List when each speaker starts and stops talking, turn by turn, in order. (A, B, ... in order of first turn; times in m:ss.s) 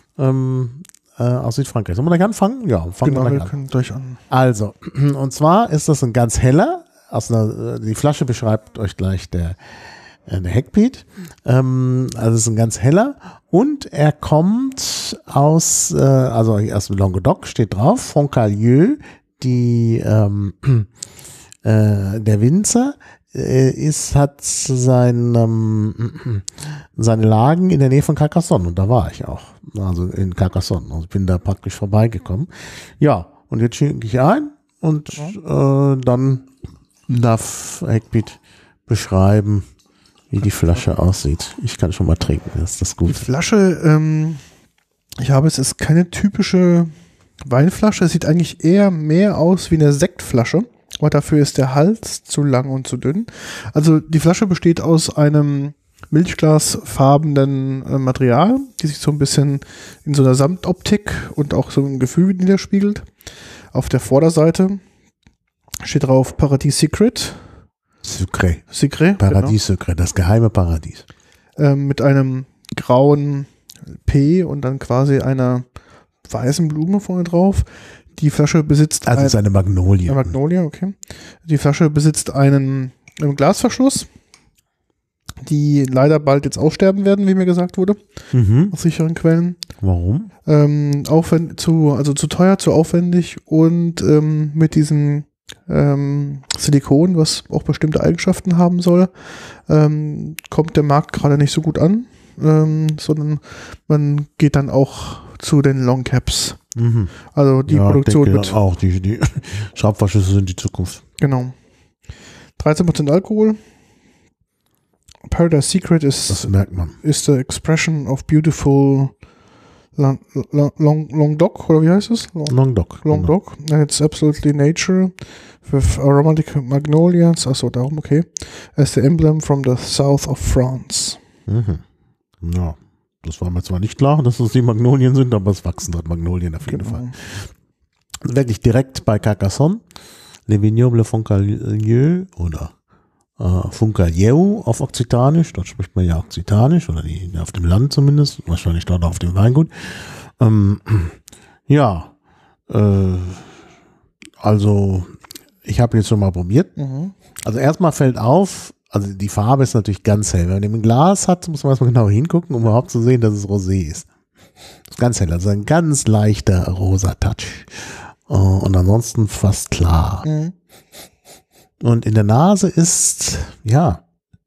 0:00.2-0:03.5 A
0:03.0-0:04.2 B
0:04.3-0:09.6 A
0:10.3-0:20.9 A
0:21.6-0:36.5 A
0:37.1-0:39.7 A
0:40.3-0:43.3 A
0:43.1-0:44.4 B
0:45.2-1:03.1 B
1:03.7-1:04.8 B
1:05.8-1:07.5 B
1:08.0-1:11.0 A
1:08.7-1:09.6 B
1:11.6-1:15.7 B
1:16.2-1:19.4 B
1:19.1-1:20.4 A
1:20.0-1:24.1 B
1:25.4-1:28.0 B
1:28.3-1:28.8 A
1:28.7-1:29.6 B
1:29.8-1:30.3 A
1:30.4-1:46.6 B
1:46.8-1:47.2 A
1:47.3-1:48.6 B
1:47.7-1:51.0 A
1:51.2-1:51.6 B
1:52.6-1:53.6 B
1:55.3-1:59.2 B
1:56.3-1:57.0 A
2:00.0-2:11.2 B
2:02.5-2:03.3 A
2:11.5-2:11.8 A
2:12.4-2:17.5 A
2:16.6-2:17.2 B
2:18.2-2:19.8 A
2:20.5-2:22.7 A
2:23.4-2:32.1 A
2:32.7-2:33.6 A
2:34.4-2:35.1 A
2:35.6-2:36.7 A
2:36.8-2:37.1 B
2:37.4-2:44.1 A
2:44.9-2:50.3 A
2:50.2-2:50.5 B
2:51.8-2:54.0 A